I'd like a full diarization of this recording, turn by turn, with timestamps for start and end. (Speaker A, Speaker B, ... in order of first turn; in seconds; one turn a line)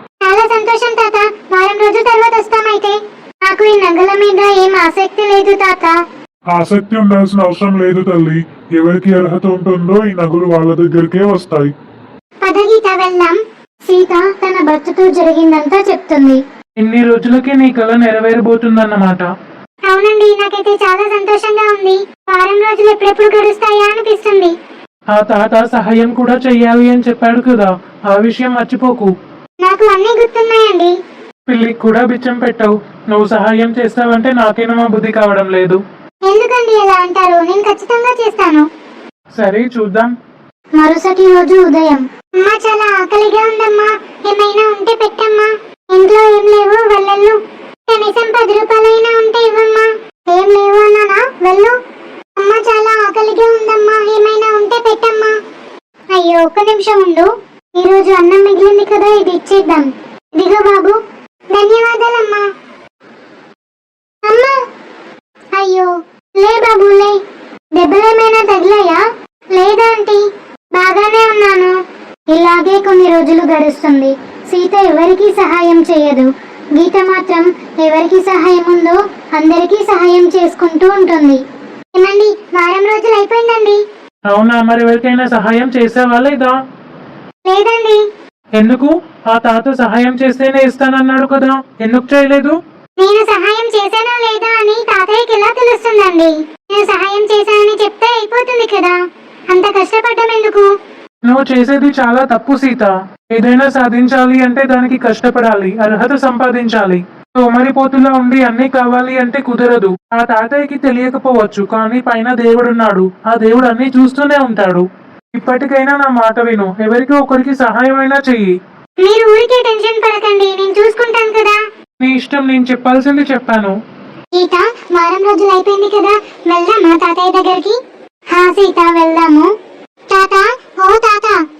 Speaker A: 0.3-6.0
Speaker B: 6.5-11.7
Speaker A: 12.4-13.4
Speaker A: 13.9-16.4
Speaker C: 16.8-19.3
Speaker A: 19.9-24.5
Speaker C: 25.1-29.1
Speaker A: 29.6-30.9
Speaker C: 31.5-35.8
Speaker A: 36.3-38.6
Speaker C: 39.4-40.1
Speaker A: 40.8-47.4
Speaker A: 47.9-51.8
Speaker A: 52.4-55.4
Speaker A: 56.1-61.0
Speaker A: 61.5-62.4
Speaker A: 64.3-64.5
Speaker A: 65.5-67.2
Speaker A: 67.8-69.0
Speaker A: 69.6-70.2
Speaker A: 70.8-71.7
Speaker A: 72.3-81.4
Speaker A: 82.0-83.8
Speaker C: 84.3-86.5
Speaker A: 87.5-88.0
Speaker C: 88.6-92.5
Speaker A: 93.0-99.0
Speaker A: 99.5-100.7
Speaker C: 101.3-114.8
Speaker C: 115.4-118.5
Speaker A: 119.0-121.6
Speaker C: 122.0-123.7
Speaker A: 124.4-127.8
Speaker A: 128.3-129.5
Speaker A: 130.1-131.4